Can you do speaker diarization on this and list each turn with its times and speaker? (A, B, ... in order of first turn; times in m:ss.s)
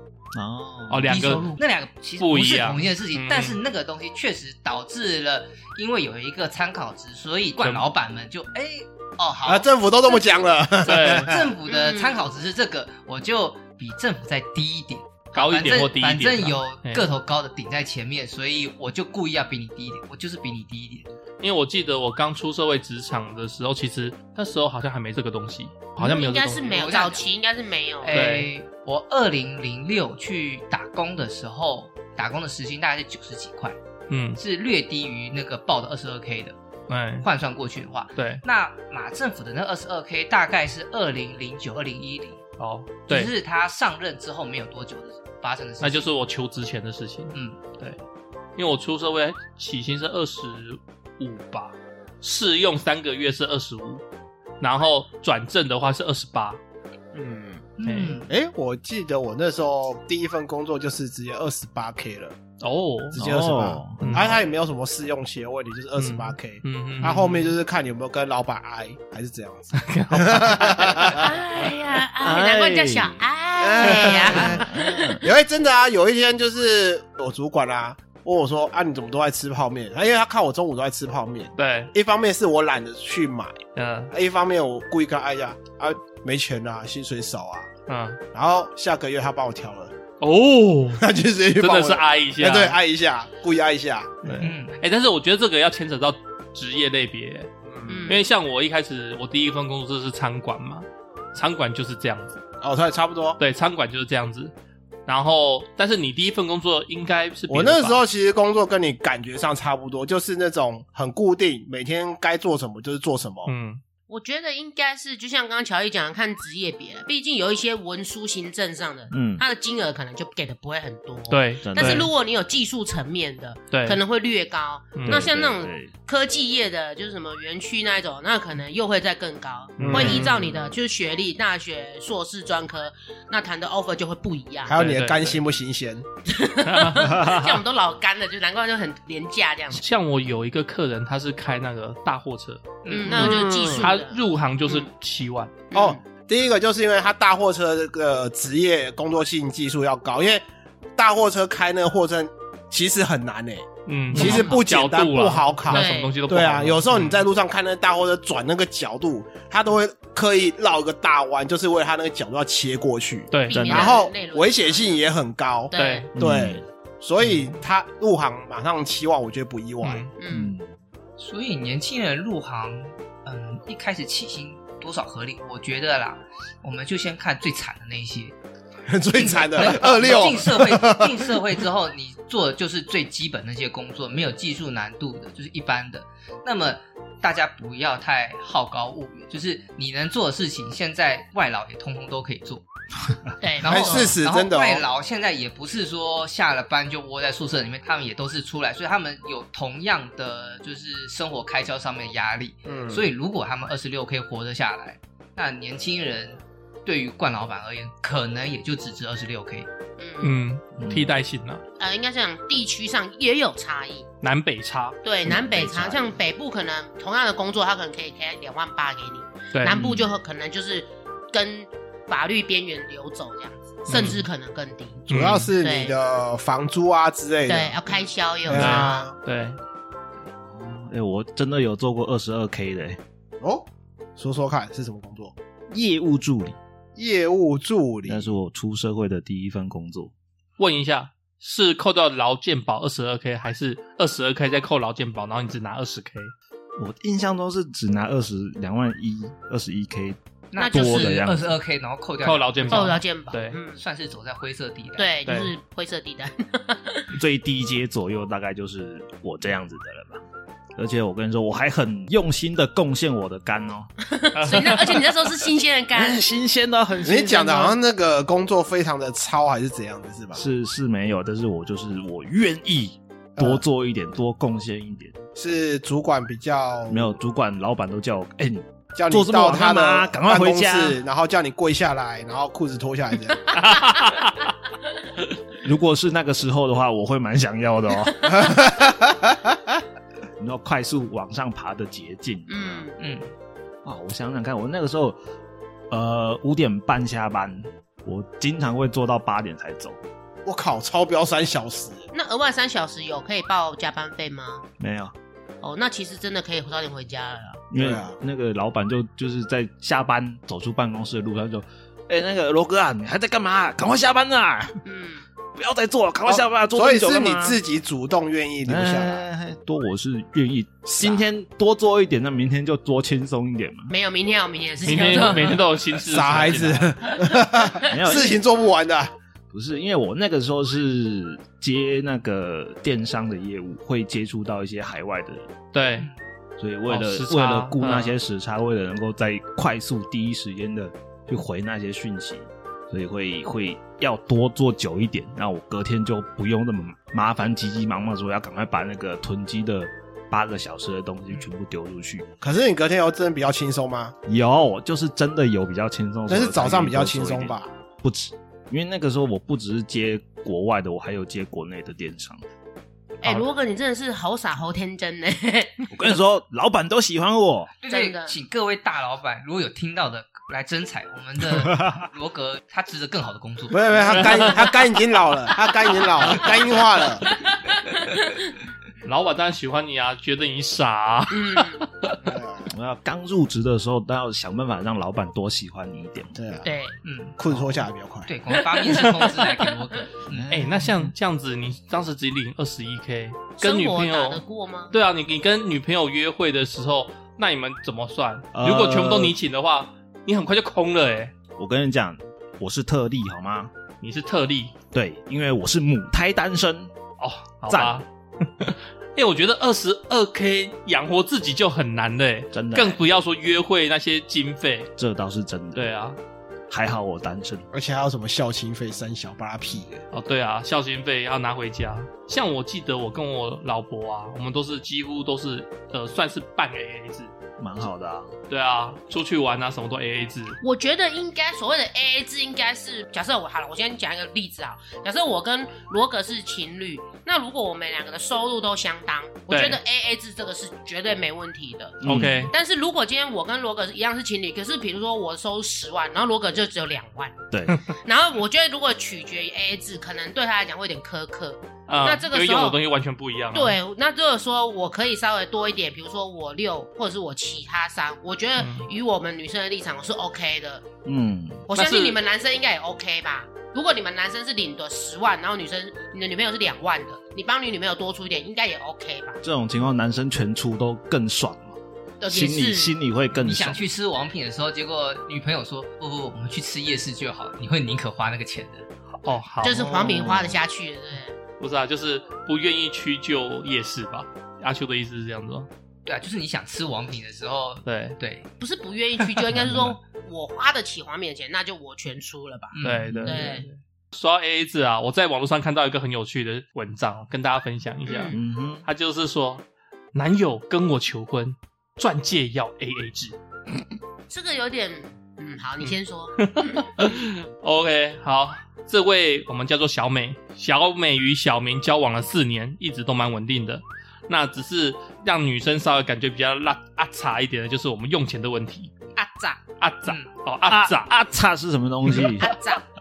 0:00.3-0:01.1 A
0:00.9-0:01.6 B
0:01.1-0:09.7 C
0:02.2-0:03.6 B
0:07.6-0:07.8 B
0:09.4-0:11.5 D
0:10.8-0:11.3 B
0:11.2-0:21.1 C
0:11.7-0:12.2 E
0:15.3-0:17.0 B
0:21.4-0:26.8 B
0:26.0-0:28.2 E
0:26.6-0:27.2 C
0:28.0-0:33.8 C
0:28.1-0:28.5 B
0:34.1-0:34.4 B
0:34.4-0:36.6 C
0:36.9-0:37.2 B
0:37.2-0:42.4 C
0:38.2-0:38.4 B
0:42.6-0:43.3 B
0:43.1-0:46.1 C
0:45.8-0:48.0 B
0:47.3-0:47.6 C
0:48.6-0:54.0 B
0:54.6-0:56.6 B
0:57.1-0:57.6 D
0:57.8-0:58.3 C
0:57.8-0:58.2 B
0:58.3-1:02.3 D
1:02.6-1:03.2 B
1:03.1-1:04.4 A
1:03.1-1:11.3 D
1:04.0-1:04.4 B
1:06.0-1:07.5 B
1:09.7-1:11.1 B
1:11.1-1:15.2 E
1:12.2-1:13.2 A
1:13.6-1:23.6 D
1:14.4-1:15.2 A
1:21.6-1:21.9 B
1:23.8-1:24.1 B
1:24.1-1:27.7 D
1:27.9-1:28.2 B
1:28.3-1:29.9 D
1:30.2-1:31.0 B
1:31.0-1:34.4 D
1:31.6-1:32.8 B
1:34.2-1:37.5 B
1:34.4-1:34.8 C
1:37.6-1:38.1 D
1:37.9-1:38.2 E
1:38.1-1:42.4 B
1:42.6-1:43.4 D
1:43.4-1:44.5 B
1:45.1-1:48.0 B
1:47.5-1:53.5 D
1:53.4-1:53.8 B
1:54.1-2:14.7 E
1:59.1-1:59.4 A
2:01.3-2:02.1 B
2:01.6-2:02.1 A
2:03.7-2:04.0 B
2:05.0-2:05.3 B
2:05.1-2:05.9 A
2:09.8-2:10.3 B
2:09.8-2:10.3 D
2:09.9-2:10.3 A
2:14.6-2:16.1 D
2:14.8-2:15.4 B
2:16.2-2:19.8 E
2:16.6-2:17.2 B
2:17.2-2:17.4 A
2:19.7-2:25.6 B
2:22.8-2:23.2 C
2:22.9-2:24.9 E
2:23.1-2:23.9 D
2:25.7-2:26.0 E
2:25.7-2:30.4 D
2:31.0-2:50.1 D
2:33.8-2:37.2 B
2:34.2-2:34.5 E
2:35.7-2:36.2 E
2:43.3-2:43.7 B
2:43.4-2:45.0 E
2:43.5-2:44.0 A
2:45.7-2:46.1 E
2:45.7-2:46.1 B
2:46.1-2:46.6 A
2:49.8-2:50.1 B
2:50.2-2:50.5 E
2:50.3-2:50.7 A
2:51.2-2:58.3 C
2:58.9-3:01.3 D
2:59.1-3:12.6 C
3:13.4-3:14.2 E
3:13.6-3:14.8 D
3:13.6-3:29.7 C
3:22.6-3:23.1 D
3:30.0-3:30.4 E
3:30.2-3:31.6 B
3:30.8-3:31.2 A
3:31.8-3:34.1 E
3:34.2-3:35.0 B
3:35.0-3:45.9 E
3:35.2-3:36.1 A
3:39.5-3:39.8 B
3:39.8-3:40.1 A
3:43.9-3:44.2 B
3:45.1-3:45.5 B
3:45.1-3:47.9 D
3:47.5-3:49.1 E
3:48.4-3:49.2 D
3:48.5-3:49.6 B
3:50.3-3:53.0 A
3:53.4-3:55.3 D
3:55.7-3:56.6 A
3:57.0-3:58.3 D
3:58.1-4:00.1 A
4:00.6-4:06.3 B
4:06.8-4:11.5 A
4:10.5-4:13.0 C
4:10.6-4:11.2 E
4:12.2-4:13.6 B
4:12.7-4:13.8 E
4:13.8-4:15.1 C
4:15.0-4:17.1 E
4:15.3-4:15.5 B
4:17.1-4:20.2 A
4:20.8-4:23.9 A
4:24.1-4:26.2 E
4:24.3-4:25.0 B
4:25.9-4:27.6 A
4:27.0-4:27.7 E
4:27.0-4:30.4 D
4:30.4-4:35.2 A
4:33.4-4:33.6 D
4:35.4-4:37.1 D
4:36.9-4:41.0 A
4:38.9-4:43.5 D
4:43.5-4:44.5 B
4:45.6-4:48.4 A
4:48.2-4:49.8 D
4:50.4-4:52.9 A
4:52.5-4:53.0 E
4:53.0-4:53.3 C
4:53.8-4:55.2 A
4:55.9-5:00.0 A
5:00.4-5:02.1 D
5:02.1-5:04.6 E
5:04.8-5:05.1 A
5:05.6-5:07.7 E
5:07.7-5:14.8 A
5:07.7-5:08.1 D
5:14.8-5:15.2 E
5:15.6-5:17.6 A
5:16.2-5:19.2 D
5:18.6-5:23.9 A
5:20.9-5:21.2 D
5:23.9-5:25.6 E
5:24.8-5:26.9 B
5:26.0-5:29.1 D
5:27.3-5:27.9 E
5:27.9-5:28.4 A
5:29.5-5:35.5 A
5:35.7-5:36.1 B
5:36.6-5:52.3 A
5:36.9-5:38.2 B
5:52.4-5:54.2 D
5:54.2-6:02.4 A
5:56.3-5:57.7 D
6:03.2-6:05.9 E
6:05.9-6:07.7 A
6:07.8-6:14.6 C
6:07.9-6:08.3 E
6:11.5-6:12.0 A
6:13.7-6:17.2 D
6:14.1-6:14.4 B
6:17.3-6:18.4 E
6:19.0-6:22.1 B
6:21.3-6:21.9 E
6:22.2-6:22.7 D
6:22.7-6:26.4 A
6:26.3-6:26.7 D
6:26.6-6:27.0 E
6:27.0-6:27.7 C
6:27.4-6:28.3 D
6:28.2-6:30.5 C
6:28.6-6:29.7 E
6:30.3-6:31.1 A
6:30.5-6:41.3 B
6:33.6-6:34.9 E
6:38.5-6:39.4 A
6:41.6-6:43.7 A
6:44.0-6:44.7 B
6:44.9-6:46.9 A
6:47.2-6:54.9 B
6:47.7-6:48.0 A
6:52.5-6:53.0 A
6:55.0-6:55.9 A
6:55.7-6:56.2 B
6:56.7-6:57.7 A
6:57.7-7:00.0 D
7:00.1-7:07.3 B
7:07.6-7:08.3 A
7:08.5-7:10.6 B
7:10.6-7:27.4 E
7:19.5-7:19.8 B
7:22.0-7:22.5 A
7:22.0-7:22.5 B
7:27.5-7:27.8 A
7:27.9-7:32.8 E
7:31.9-7:33.8 B
7:33.5-7:40.8 E
7:38.6-7:38.9 B
7:41.1-7:41.6 A
7:41.7-7:49.4 E
7:41.7-7:42.2 B
7:49.4-7:53.8 A
7:52.2-7:52.9 E
7:53.3-7:58.9 C
7:59.2-8:00.2 B
7:59.6-8:01.4 E
7:59.8-8:00.6 A
8:01.6-8:05.7 B
8:06.1-8:08.5 C
8:07.8-8:08.2 B
8:08.6-8:12.7 E
8:09.6-8:10.0 A
8:12.7-8:13.5 C
8:12.8-8:23.4 B
8:13.1-8:13.4 A
8:13.2-8:13.7 E
8:18.1-8:18.4 E
8:18.3-8:18.8 A
8:24.3-8:26.9 E
8:25.8-8:38.9 B
8:39.2-8:39.6 E
8:39.8-8:41.1 B
8:40.6-8:42.5 A
8:42.2-8:42.8 E